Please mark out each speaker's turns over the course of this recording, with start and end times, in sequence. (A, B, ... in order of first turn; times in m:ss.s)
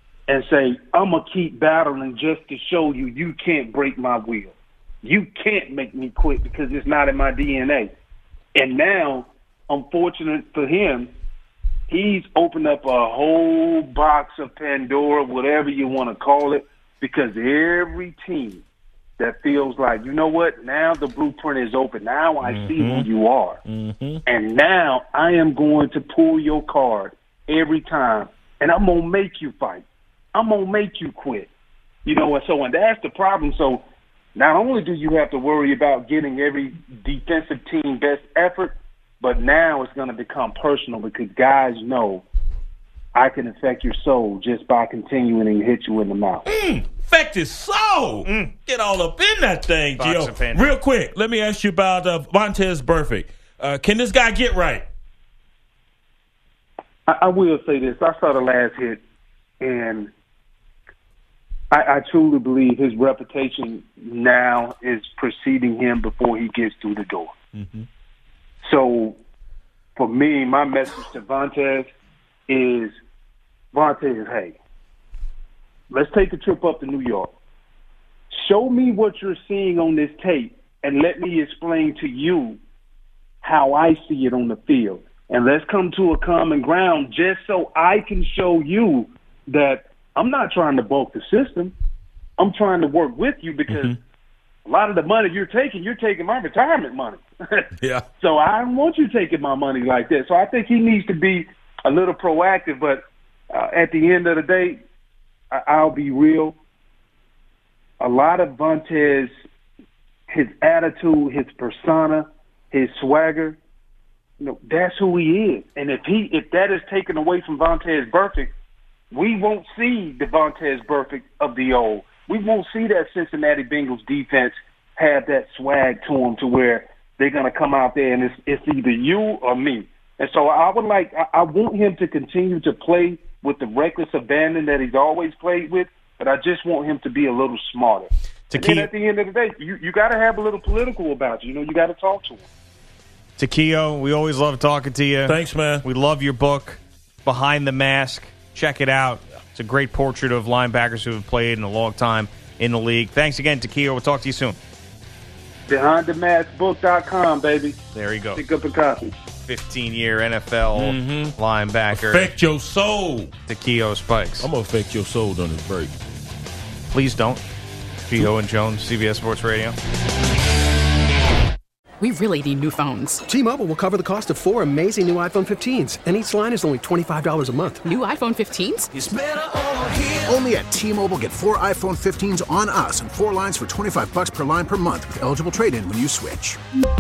0:00.3-0:07.9 A
0:08.5-0:11.1 A
0:11.9-0:18.6 A
0:19.2-0:23.6 A
0:22.4-0:23.1 B
0:23.6-0:24.2 B
0:24.2-0:31.5 A
0:32.0-0:33.8 A
0:34.3-0:42.2 A
0:43.1-0:46.4 A
0:46.5-0:54.8 B
0:48.2-0:48.5 C
0:50.0-0:50.7 C
0:57.1-0:59.0 A
0:59.6-1:00.1 A
1:01.7-1:07.3 A
1:07.5-1:07.8 B
1:08.6-1:09.2 A
1:10.0-1:11.9 A
1:12.5-1:12.9 A
1:13.7-1:14.6 A
1:15.9-1:17.3 A
1:18.3-1:22.6 A
1:23.4-1:31.7 A
1:32.4-1:33.9 A
1:33.7-1:34.0 B
1:34.6-1:44.8 A
1:37.8-1:38.0 B
1:45.5-1:46.6 A
1:48.0-1:49.3 A
1:50.3-1:53.6 A
1:54.4-1:58.5 A
1:59.1-2:22.4 A
2:18.5-2:18.9 C
2:23.4-2:34.6 C
2:25.2-2:25.8 B
2:35.7-2:37.8 A
2:37.9-2:38.4 C
2:38.3-2:39.1 A
2:39.4-2:42.3 C
2:40.7-2:41.4 B
2:41.9-2:43.3 B
2:43.5-2:44.5 C
2:44.4-2:46.0 B
2:46.9-2:47.4 C
2:48.1-2:49.8 C
2:52.0-2:53.2 D
2:53.3-2:57.8 E
2:57.8-2:58.9 D
2:58.9-3:06.6 F